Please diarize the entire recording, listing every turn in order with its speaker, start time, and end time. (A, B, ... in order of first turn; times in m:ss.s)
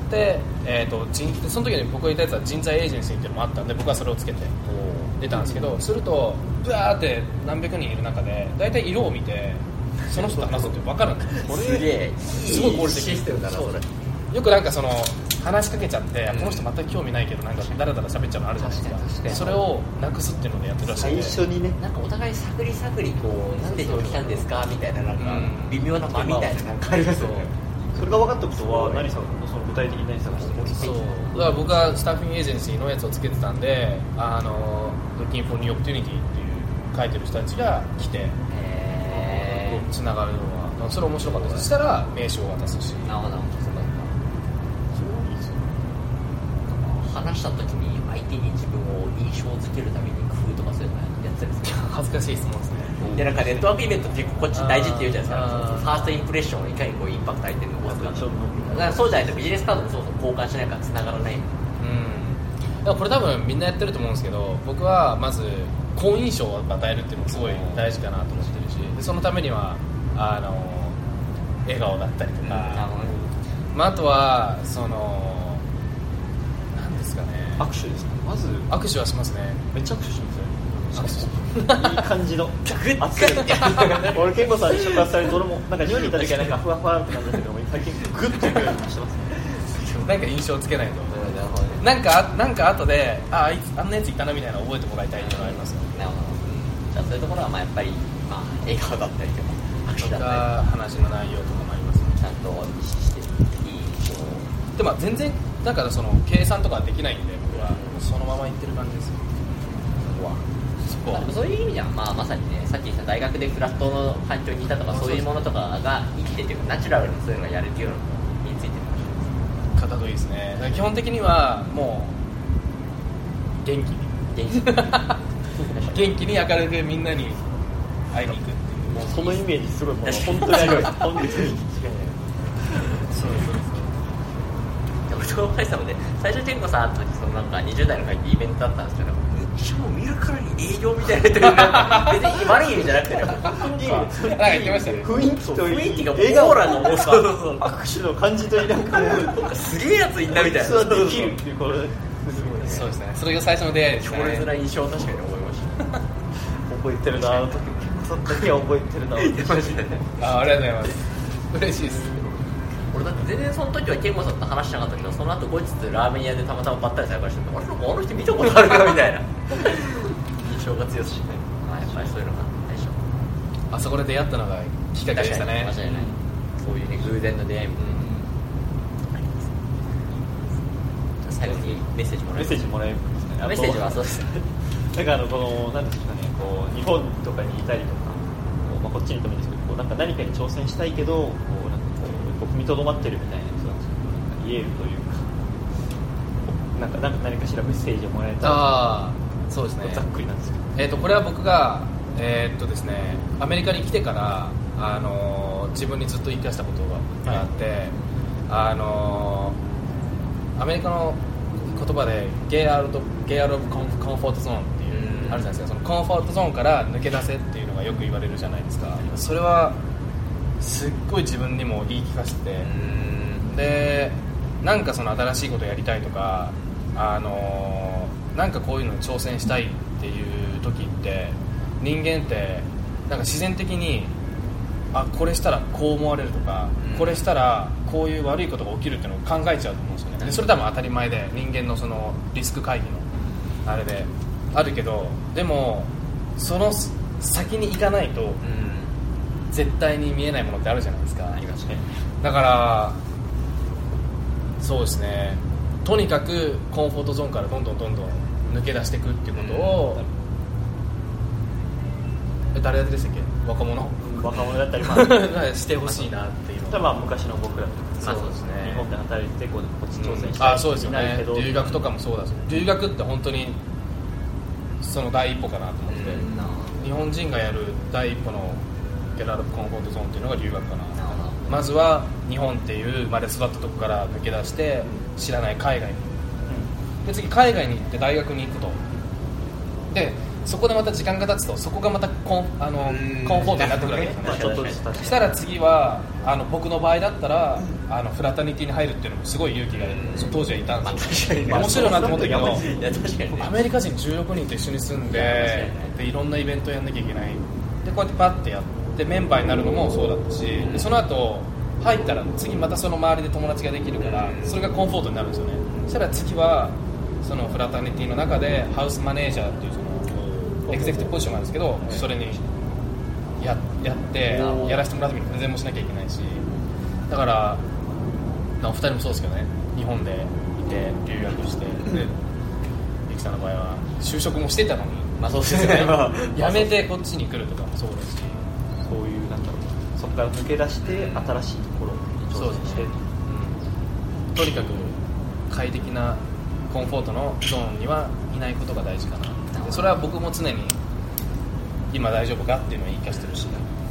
0:00.1-0:04.5 A
0:04.6-0:05.1 B
0:05.2-0:11.4 A
0:05.3-0:05.8 C
0:10.1-0:10.7 B
0:11.3-0:13.8 B
0:11.4-0:11.9 C
0:12.3-0:21.4 A
0:16.3-0:16.7 B
0:18.6-0:19.6 B
0:20.8-0:21.8 C
0:21.8-0:27.5 B
0:23.6-0:24.4 C
0:25.2-0:27.5 A
0:27.9-0:31.4 C
0:28.5-0:29.1 B
0:30.3-0:31.8 B
0:30.8-0:38.4 A
0:38.5-0:39.8 B
0:39.5-0:43.2 A
0:41.2-0:41.7 B
0:43.0-0:44.1 B
0:45.0-0:45.6 A
0:46.7-0:51.9 B
0:51.7-0:53.6 A
0:53.0-0:53.3 C
0:53.0-1:01.5 B
0:54.5-0:56.0 A
0:57.8-0:59.6 C
1:01.8-1:11.0 A
1:07.3-1:07.9 B
1:11.6-1:12.9 A
1:12.4-1:13.2 B
1:13.7-1:15.6 A
1:16.7-1:17.7 A
1:17.6-1:18.7 C
1:18.7-1:19.6 A
1:19.7-1:29.3 C
1:20.9-1:22.0 A
1:22.6-1:25.0 B
1:23.2-1:24.0 A
1:29.5-1:31.2 A
1:31.1-1:31.9 B
1:31.8-1:36.1 A
1:35.2-1:40.7 B
1:40.0-1:42.2 A
1:42.2-1:44.5 B
1:44.8-1:49.3 A
1:47.5-1:48.0 B
1:50.0-1:50.4 B
1:50.8-1:51.3 A
1:51.1-1:59.3 B
1:54.9-1:55.3 A
1:59.7-2:02.2 A
2:03.6-2:05.2 A
2:04.3-2:04.8 B
2:05.5-2:06.1 B
2:05.9-2:07.4 A
2:08.1-2:09.4 A
2:08.9-2:09.3 B
2:09.0-2:12.1 C
2:10.0-2:11.7 B
2:13.0-2:13.9 A
2:15.1-2:27.7 B
2:21.6-2:22.5 A
2:23.4-2:29.3 C
2:23.5-2:25.2 A
2:28.7-2:31.4 B
2:30.3-2:32.9 C
2:32.3-2:32.9 B
2:32.5-2:34.5 A
2:34.0-2:35.9 B
2:36.5-2:40.0 C
2:37.1-2:38.6 B
2:39.2-2:40.1 B
2:40.2-2:42.3 A
2:42.9-2:53.1 B
2:53.7-2:55.8 A
2:55.1-2:58.2 B
2:59.1-2:59.5 B
3:01.2-3:02.7 B
3:01.4-3:01.8 C
3:02.3-3:15.5 C
3:03.4-3:04.4 B
3:16.5-3:18.9 C
3:18.4-3:20.0 A
3:19.8-3:20.7 C
3:20.7-3:27.9 A
3:28.5-3:29.6 A
3:30.6-3:39.8 A
3:34.9-3:35.6 B
3:40.6-3:42.7 A
3:42.6-3:43.5 B
3:43.5-3:54.1 A
3:54.9-4:03.1 A
3:56.8-3:57.2 B
4:00.2-4:00.5 B
4:03.6-4:08.4 A
4:08.4-4:08.9 B
4:09.5-4:11.4 A
4:11.3-4:11.9 B
4:12.2-4:13.0 A
4:14.6-4:20.0 A
4:19.3-4:19.9 B
4:22.5-4:24.0 A
4:24.0-4:25.3 C
4:24.7-4:26.9 A
4:26.7-4:31.7 C
4:28.0-4:28.4 B
4:28.0-4:28.8 A
4:30.0-4:33.6 A
4:34.8-4:38.6 A
4:35.9-4:36.8 B
4:39.2-4:46.1 A
4:40.9-4:41.4 B
4:47.0-4:48.8 A
4:49.9-5:02.6 A
4:52.8-4:54.9 B
4:53.8-4:55.3 C
4:59.8-5:03.6 B
5:01.5-5:03.0 C
5:03.3-5:20.1 A
5:05.1-5:05.9 B
5:10.6-5:10.9 B
5:14.0-5:14.6 B
5:20.1-5:20.8 B
5:20.7-5:22.4 A
5:20.7-5:22.1 C
5:23.4-5:26.4 A
5:24.3-5:24.9 B
5:24.3-5:24.8 C
5:27.1-5:27.6 A
5:28.6-5:32.1 A
5:33.1-5:38.4 A
5:35.2-5:36.9 B
5:38.8-5:43.0 C
5:40.8-5:41.4 B
5:42.3-5:43.6 A
5:44.3-5:50.8 A
5:44.5-5:44.9 B
5:49.5-5:49.9 B
5:51.9-5:53.7 A
5:53.1-5:53.4 B